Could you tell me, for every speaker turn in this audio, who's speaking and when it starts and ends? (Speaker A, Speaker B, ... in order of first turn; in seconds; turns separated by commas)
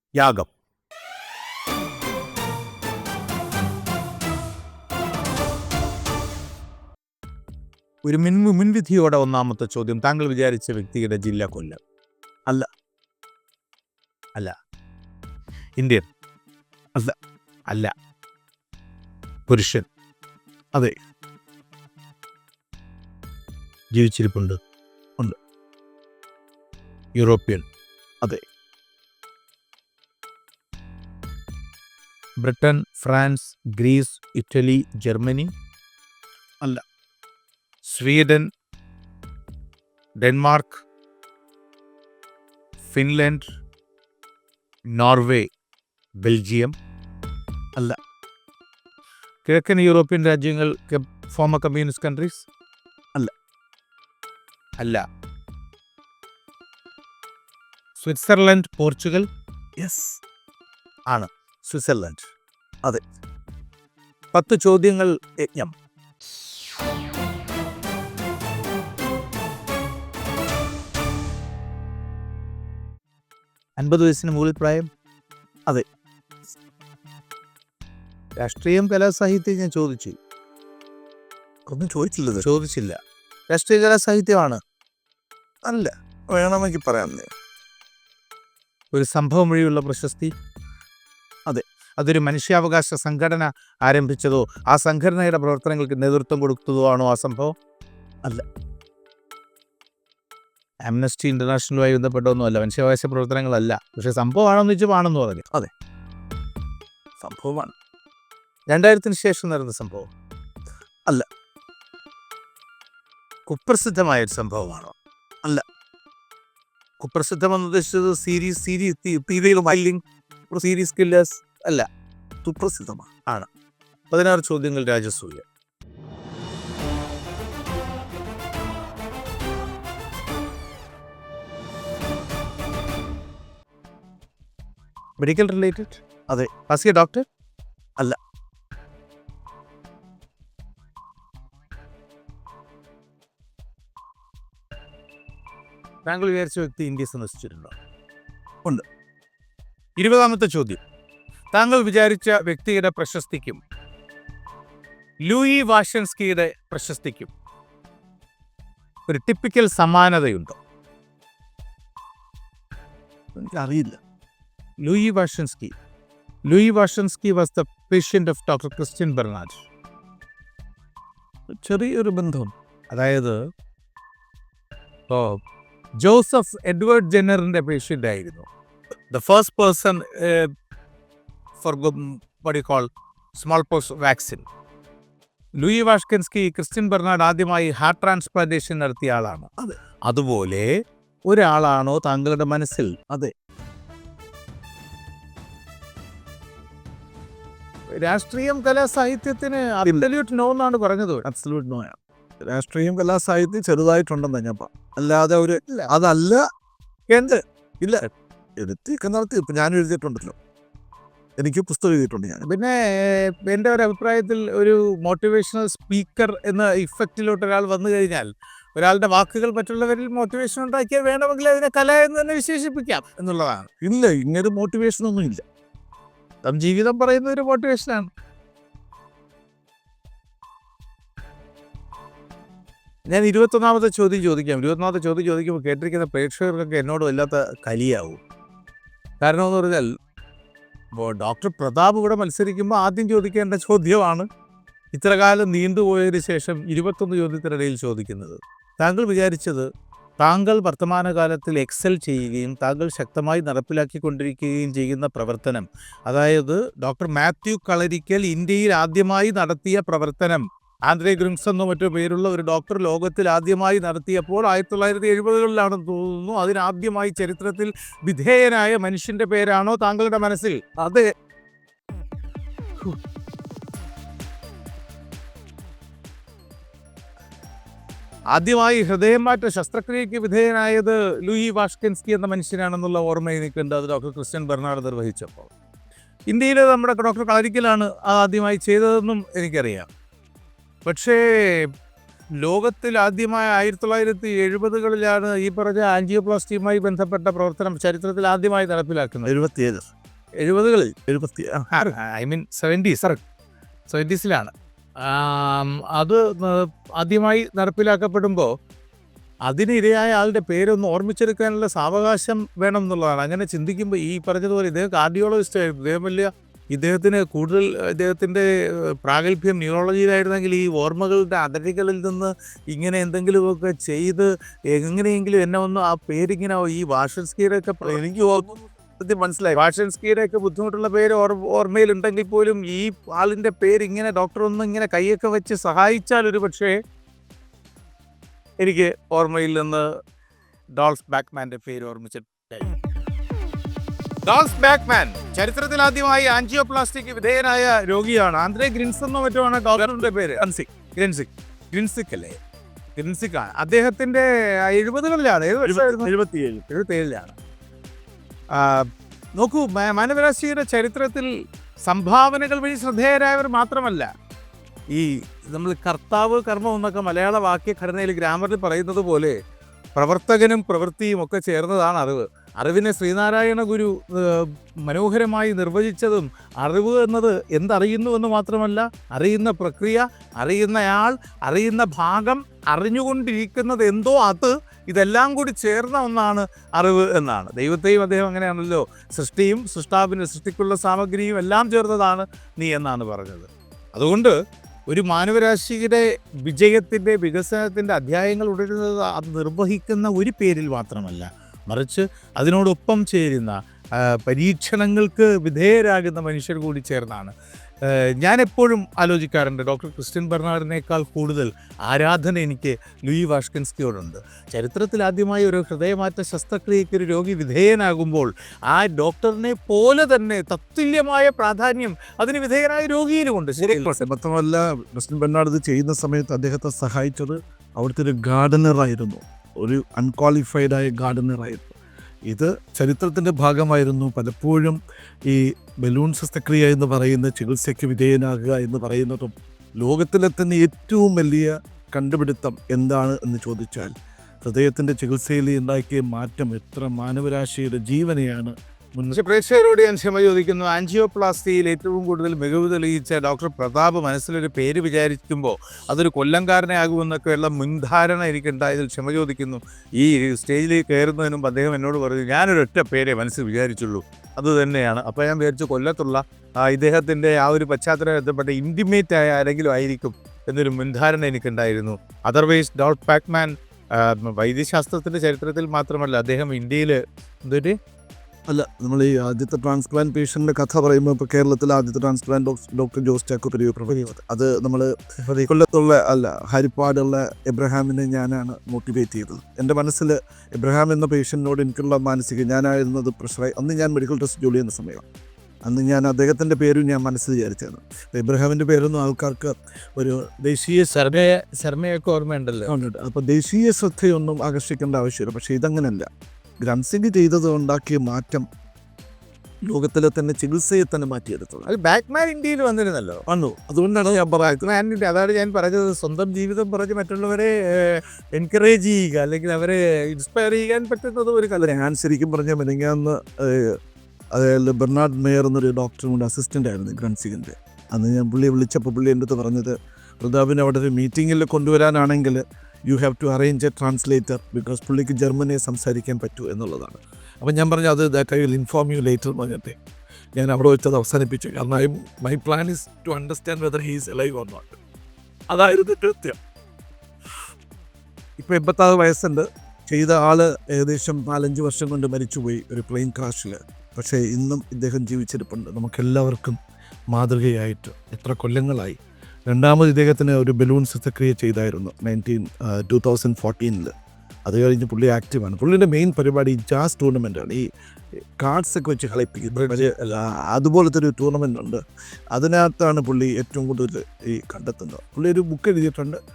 Speaker A: 0.2-0.5, Speaker A: 8.0-11.8, Speaker A: 15.8-16.0, Speaker A: 19.5-19.9, Speaker A: 23.9-24.6, Speaker A: 27.2-27.6, Speaker A: 32.4-35.5, Speaker A: 37.8-38.5, Speaker A: 40.2-40.8, Speaker A: 42.8-43.4, Speaker A: 44.9-45.5, Speaker A: 46.2-46.7, Speaker A: 49.5-52.5, Speaker A: 58.0-59.3, Speaker B: 59.8-60.2, Speaker A: 61.1-62.3, Speaker A: 64.3-65.7, Speaker A: 73.8-74.9, Speaker A: 78.4-80.2, Speaker B: 81.7-82.5, Speaker A: 82.4-83.0, Speaker A: 83.5-84.6, Speaker B: 85.6-87.3, Speaker A: 88.9-90.3, Speaker A: 92.0-97.5, Speaker A: 100.8-105.5, Speaker A: 107.2-107.6, Speaker A: 108.7-110.1, Speaker A: 113.5-114.9, Speaker A: 117.0-120.0, Speaker A: 120.5-121.9, Speaker B: 122.4-123.1, Speaker A: 124.1-125.4, Speaker A: 135.2-136.0, Speaker A: 136.7-137.2, Speaker A: 146.1-147.7, Speaker A: 150.0-150.8, Speaker A: 151.5-153.6, Speaker A: 155.2-157.3, Speaker A: 159.1-160.6, Speaker B: 163.4-164.0, Speaker A: 164.8-165.7, Speaker A: 166.5-169.7, Speaker B: 171.5-172.5, Speaker A: 172.9-173.4, Speaker A: 175.1-175.4, Speaker A: 176.0-178.5, Speaker A: 179.1-180.5, Speaker A: 181.6-184.5, Speaker A: 185.6-189.5, Speaker A: 190.1-190.7, Speaker A: 191.3-192.9, Speaker A: 197.9-201.2, Speaker B: 201.2-206.4, Speaker A: 205.7-205.9, Speaker B: 207.1-208.0, Speaker B: 208.6-210.3, Speaker B: 211.4-212.5, Speaker A: 212.5-223.7, Speaker B: 223.8-225.4, Speaker A: 226.4-228.1, Speaker A: 233.1-238.2, Speaker A: 239.2-239.9, Speaker A: 240.9-244.2, Speaker A: 244.9-249.7, Speaker A: 250.2-270.8, Speaker A: 278.3-285.5, Speaker A: 286.3-289.9, Speaker A: 290.8-291.7, Speaker A: 292.4-299.3, Speaker B: 299.2-299.8, Speaker A: 300.4-300.9, Speaker B: 301.1-301.7, Speaker A: 301.8-303.2, Speaker A: 303.9-308.5, Speaker A: 309.4-318.4, Speaker A: 319.0-328.0, Speaker B: 327.8-329.5, Speaker A: 329.5-336.8, Speaker A: 338.6-339.8, Speaker A: 340.8-342.7, Speaker A: 344.2-350.4, Speaker B: 349.8-350.7, Speaker A: 350.9-352.3, Speaker A: 352.9-356.1, Speaker B: 355.6-356.6, Speaker A: 356.7-357.3, Speaker A: 358.6-361.3, Speaker A: 361.8-364.1, Speaker A: 364.9-369.4, Speaker A: 369.9-394.3, Speaker A: 394.9-403.6, Speaker A: 404.2-407.3, Speaker A: 408.2-423.9, Speaker B: 423.6-431.7, Speaker B: 432.3-443.9, Speaker B: 444.4-449.1, Speaker A: 449.1-477.8, Speaker B: 478.5-484.9, Speaker A: 485.2-485.5, Speaker B: 485.5-495.0, Speaker B: 495.6-500.9, Speaker A: 500.9-502.7, Speaker B: 502.7-506.1, Speaker B: 506.6-508.4, Speaker B: 509.6-511.7, Speaker A: 511.7-513.2, Speaker B: 513.3-514.6, Speaker A: 514.6-521.6, Speaker B: 521.6-523.7, Speaker B: 524.3-539.8, Speaker B: 540.4-544.8, Speaker B: 545.5-546.4, Speaker B: 548.4-556.6, Speaker B: 557.1-559.0, Speaker B: 559.5-563.9, Speaker B: 564.5-567.7, Speaker B: 568.4-571.8, Speaker A: 569.5-569.8, Speaker B: 572.3-576.2